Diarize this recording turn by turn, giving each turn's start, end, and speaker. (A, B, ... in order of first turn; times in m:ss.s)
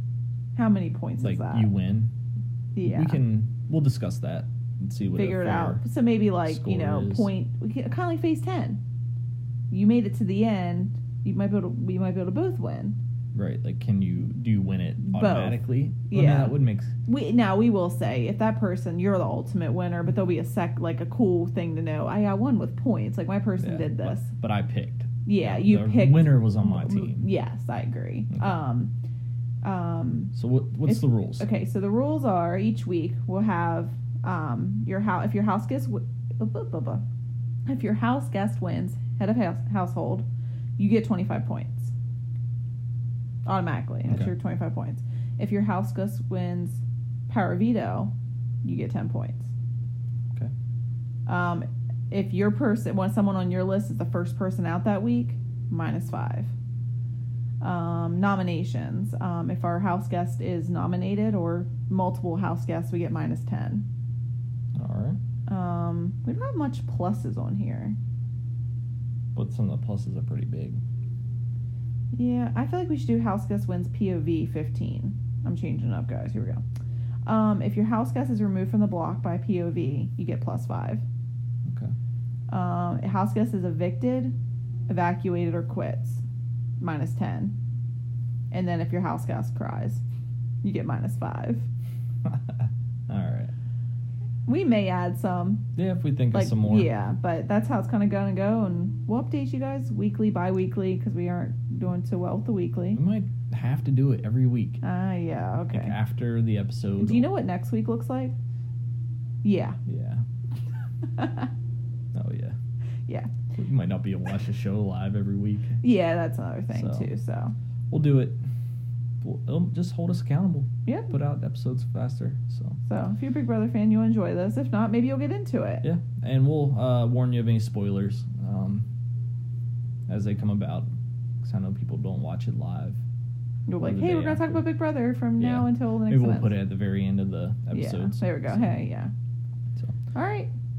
0:00.6-0:01.7 A
0:01.2-0:02.1 B
0:02.7-0:03.2 A
0:02.8-0:05.8 B
0:05.1-0:08.8 A
0:06.4-0:07.3 B
0:09.7-0:13.0 A
0:13.3-0:16.9 B
0:15.0-0:24.3 A
0:23.6-0:27.3 B
0:25.2-0:28.9 A
0:29.6-0:30.3 A
0:30.3-0:31.5 B
0:30.9-0:37.0 A
0:37.7-0:40.2 A
0:40.8-0:41.9 A
0:43.4-0:48.1 A
0:48.6-0:49.5 A
0:51.3-0:56.5 A
0:57.6-1:03.8 A
1:04.7-1:05.2 B
1:05.5-1:08.0 A
1:09.3-1:10.8 B
1:12.1-1:16.6 A
1:17.2-1:21.0 A
1:21.6-1:21.9 B
1:22.5-1:24.3 A
1:24.9-1:26.2 A
1:26.8-1:27.5 A
1:28.5-1:30.0 A
1:30.6-1:31.7 A
1:32.2-1:33.5 B
1:34.5-1:35.7 A
1:35.8-1:36.9 B
1:36.3-1:43.0 A
1:42.9-1:44.8 B
1:44.8-1:45.9 A
1:45.7-1:47.3 B
1:47.0-1:48.4 A
1:49.4-1:49.8 A
1:49.9-1:50.2 B
1:51.1-1:51.5 A
1:52.1-1:52.6 B
1:53.1-1:53.4 A
1:53.5-1:55.8 B
1:55.8-1:57.5 A
1:56.7-1:57.1 B
1:57.9-1:58.4 B
1:59.2-2:02.8 B
2:00.8-2:01.1 A
2:02.8-2:05.8 A
2:05.8-2:08.9 B
2:10.1-2:10.9 B
2:11.4-2:13.0 B
2:13.7-2:16.5 A
2:13.8-2:14.6 B
2:15.4-2:18.8 B
2:17.7-2:19.1 A
2:20.1-2:20.5 A